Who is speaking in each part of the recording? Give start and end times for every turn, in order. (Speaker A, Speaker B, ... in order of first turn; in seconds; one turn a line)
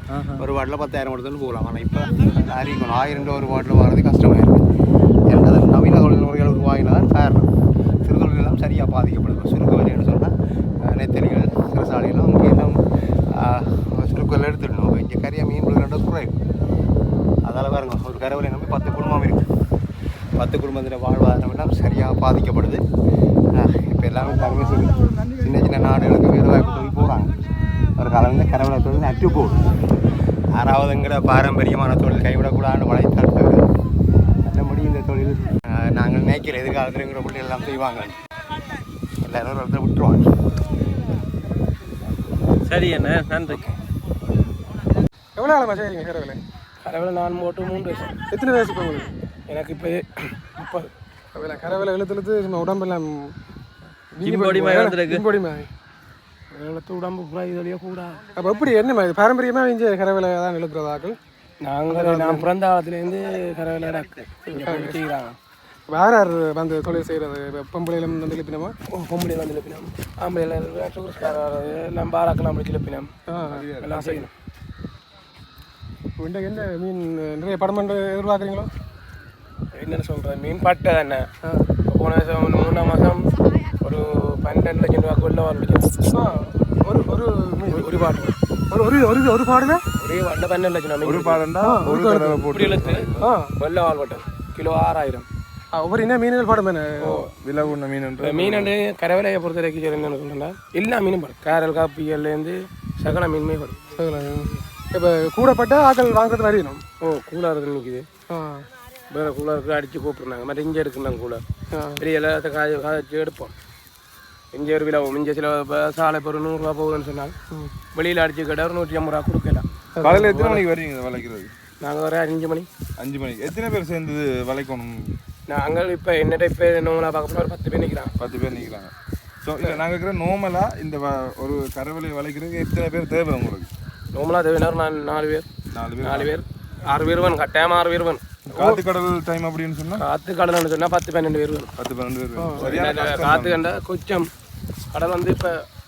Speaker A: 0.1-0.4
Speaker B: 0.4-4.6
Speaker B: 5.3-7.5
Speaker B: 8.0-10.3
Speaker B: 10.8-12.8
Speaker B: 13.4-16.3
Speaker B: 17.4-19.5
Speaker B: 20.4-22.8
Speaker B: 23.5-27.3
Speaker B: 28.0-29.6
Speaker B: 30.5-33.6
Speaker B: 34.4-38.1
Speaker B: 39.2-40.3
Speaker A: 42.6-43.7
Speaker C: 45.4-46.4
Speaker D: 46.9-48.2
Speaker C: 48.2-49.1
Speaker D: 49.5-50.9
Speaker C: 51.4-53.2
Speaker C: 54.2-55.7
Speaker A: 54.2-55.3
Speaker D: 56.5-58.2
Speaker C: 58.2-61.2
Speaker D: 61.6-65.3
Speaker C: 61.9-62.5
Speaker C: 64.5-65.0
Speaker C: 65.9-68.8
Speaker D: 68.9-73.1
Speaker C: 73.3-74.2
Speaker E: 73.5-74.2
Speaker D: 73.8-74.3
Speaker C: 76.2-78.7
Speaker D: 79.8-81.3
Speaker D: 81.8-83.2
Speaker D: 83.8-85.8
Speaker C: 85.8-86.3
Speaker C: 86.9-88.1
Speaker D: 87.8-88.3
Speaker C: 88.7-89.8
Speaker D: 90.0-91.5
Speaker E: 91.0-93.3
Speaker C: 91.6-92.5
Speaker D: 92.5-95.3
Speaker C: 93.2-93.5
Speaker C: 95.8-97.3
Speaker E: 97.3-98.8
Speaker D: 98.2-103.8
Speaker C: 104.0-106.8
Speaker D: 107.0-108.1
Speaker C: 108.3-108.6
Speaker D: 109.1-111.4
Speaker C: 111.8-112.0
Speaker D: 112.0-113.5
Speaker D: 114.5-117.3
Speaker C: 117.6-117.8
Speaker D: 117.8-119.7
Speaker C: 120.0-120.3
Speaker E: 120.0-121.5
Speaker D: 120.2-120.6
Speaker D: 121.8-122.7
Speaker E: 123.0-125.0
Speaker D: 125.5-128.1
Speaker E: 128.2-133.7
Speaker D: 134.2-135.5
Speaker E: 135.8-136.3
Speaker D: 136.0-138.6
Speaker E: 138.4-140.0
Speaker D: 140.0-141.7
Speaker E: 141.8-143.7
Speaker C: 142.4-142.7
Speaker D: 142.6-144.3
Speaker D: 144.9-145.6